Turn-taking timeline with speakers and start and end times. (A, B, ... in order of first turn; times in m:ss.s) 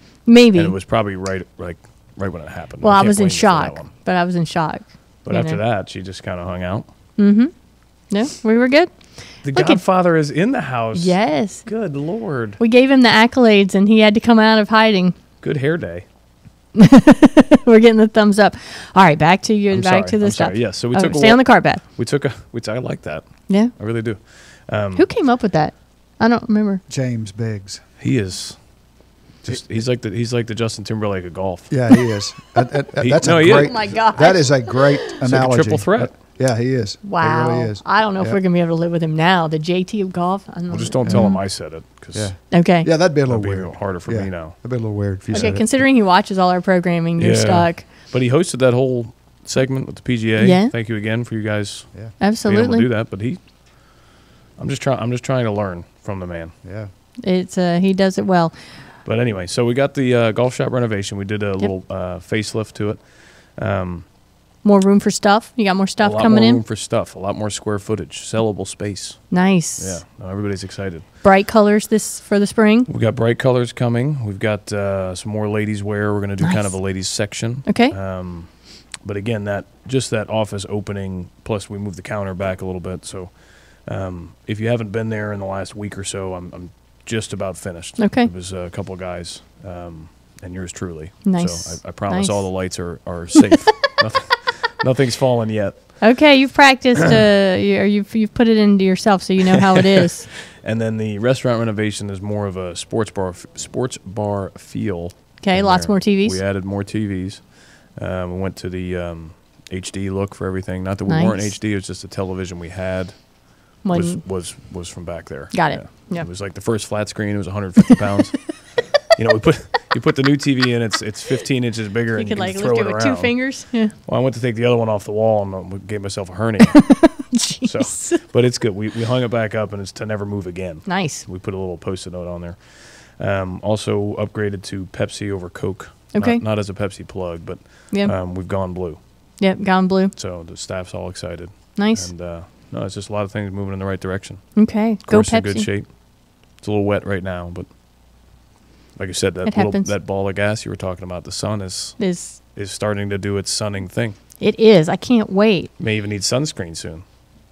0:00.3-0:00.8 A
0:00.5-0:03.9 B
0:02.8-0:05.6 A
0:05.2-0:06.9 B
0:07.2-0:09.8 A
0:09.4-0:12.6 B
0:10.9-0:11.9 A
0:12.6-0:15.2 A
0:15.4-0:16.1 B
0:16.8-0:21.8 A
0:19.7-0:25.1 B
0:23.5-0:23.7 A
0:25.0-0:26.8 A
0:26.9-0:27.8 C
0:28.0-0:32.1 B
0:29.5-0:29.8 C
0:31.7-0:38.4 C
0:32.9-0:34.0 B
0:33.4-0:35.0 A
0:35.2-0:36.1 B
0:37.0-0:41.4 A
0:40.7-0:42.3 B
0:41.0-0:45.9 C
0:42.5-0:42.9 A
0:43.1-0:45.6 B
0:45.3-0:47.8 A
0:47.2-0:56.6 B
0:50.4-0:50.7 A
0:52.2-0:52.9 A
0:56.6-0:56.9 C
0:57.2-0:59.0 A
0:59.0-1:04.1 B
1:04.6-1:06.6 A
1:06.0-1:11.1 B
1:09.3-1:10.0 A
1:11.2-1:12.9 A
1:12.9-1:36.2 B
1:16.4-1:18.0 A
1:28.0-1:28.3 A
1:31.2-1:33.1 A
1:36.0-1:40.3 A
1:40.0-2:19.4 B
1:45.4-1:46.4 A
1:51.1-1:51.5 A
1:53.8-1:54.6 A
1:55.5-1:56.3 A
2:02.2-2:04.0 A
2:06.8-2:08.2 A
2:10.9-2:11.2 A
2:16.1-2:16.4 A
2:19.4-2:20.1 A
2:20.1-2:27.7 B
2:21.8-2:22.1 A
2:24.6-2:25.7 A
2:29.0-2:34.2 B
2:29.5-2:29.9 A
2:32.0-2:32.4 A
2:34.4-2:35.7 A
2:35.8-2:37.0 B